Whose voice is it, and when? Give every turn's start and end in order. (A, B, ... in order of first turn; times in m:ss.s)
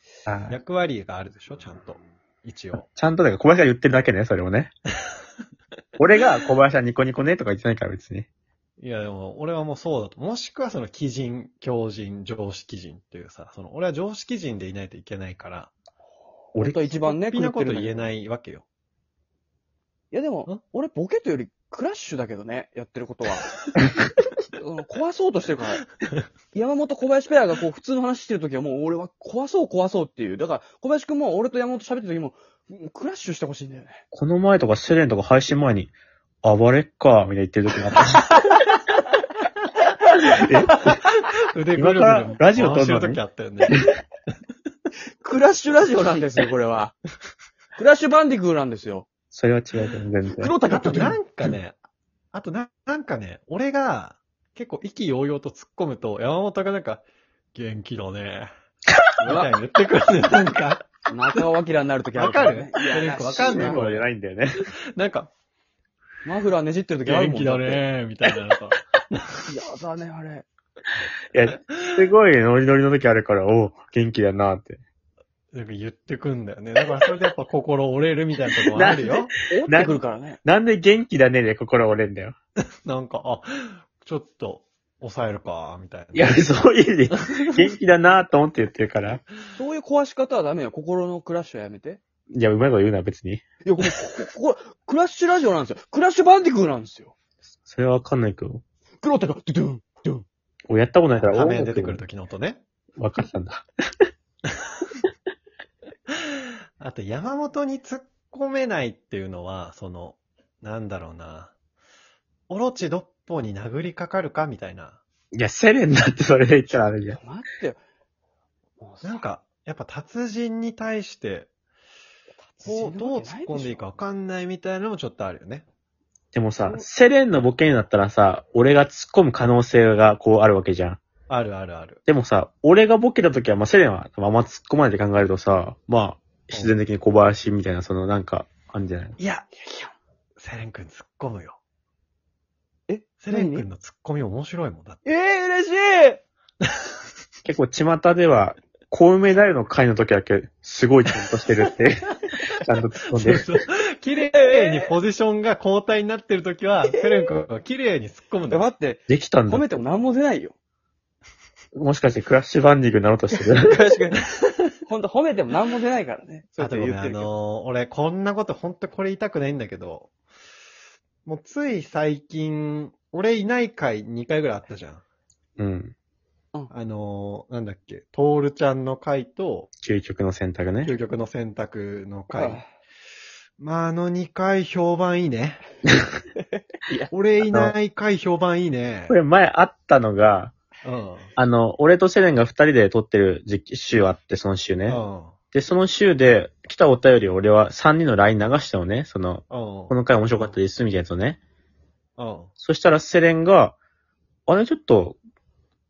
0:00.2-0:00.6 A
0:00.5-0:02.8 B
0:02.8-0:04.7 A
0:06.0-0:08.3 A
0:08.8-0:15.7 B
0:16.5-0:18.1 C
0:16.6-0:16.8 A
0:17.0-0:18.6 B
0:20.1-0:23.5 C
0:24.6-0:25.8 C
0:26.5-0:34.0 C
0:34.1-0:35.9 A
0:36.4-0:38.3 A
0:40.3-0:40.9 A
0:40.7-0:43.7 B
0:41.7-0:43.9 A
0:45.2-0:46.9 C
0:47.8-0:49.1 C
0:49.3-0:50.5 A
0:50.4-0:51.2 C
0:50.7-0:51.8 B
0:52.3-0:58.5 B
0:59.2-1:01.4 B
0:59.2-0:59.5 C
1:01.1-1:03.8 C
1:02.1-1:04.0 B
1:03.3-1:04.6 A
1:04.9-1:05.3 B
1:06.2-1:07.8 C
1:07.0-1:09.2 B
1:09.5-1:10.4 C
1:11.3-1:14.8 A
1:11.8-1:12.1 B
1:15.5-1:19.3 B
1:18.7-1:22.4 A
1:19.4-1:20.4 C
1:22.8-1:26.5 B
1:26.1-1:29.2 A
1:29.5-1:32.0 C
1:32.3-1:33.4 A
1:33.6-1:37.1 C
1:37.6-1:38.6 A
1:39.0-1:40.2 C
1:40.7-1:42.0 A
1:41.2-1:42.6 B
1:43.0-1:43.6 A
1:46.8-1:51.5 B
1:52.5-1:55.0 B
1:55.3-1:57.2 A
1:57.2-1:57.8 C
1:58.8-1:59.2 C
1:59.0-2:01.5 B
2:02.5-2:03.8 C
2:02.6-2:05.7 B
2:06.3-2:11.0 A
2:11.3-2:12.0 B
2:12.1-2:19.2 A
2:16.5-2:16.8 B
2:19.2-2:19.9 C
2:20.4-2:21.6 B
2:22.9-2:23.6 C
2:23.2-2:25.0 B
2:25.0-2:26.2 C
2:27.4-2:32.0 A
2:32.6-2:33.4 A
2:33.1-2:38.7 B
2:34.4-2:34.9 C
2:36.9-2:37.3 C
2:38.5-2:40.5 C
2:39.1-2:39.7 A
2:41.8-2:43.7 A
2:43.3-2:44.2 C
2:44.8-2:47.3 C
2:46.6-2:50.1 B
2:51.2-2:55.0 B
2:55.6-2:55.9 A
2:56.7-2:59.7 B
2:59.8-3:00.9 A
3:00.8-3:02.6 B
3:02.3-3:02.6 C
3:03.6-3:05.6 B
3:07.1-3:09.2 B
3:07.4-3:07.7 A
3:09.1-3:10.5 A
3:10.8-3:11.3 B
3:11.4-3:15.0 A
3:14.9-3:15.3 B
3:15.5-3:21.4 A
3:19.5-3:20.6 B
3:22.2-3:22.5 B
3:22.6-3:23.8 A
3:24.5-3:25.2 A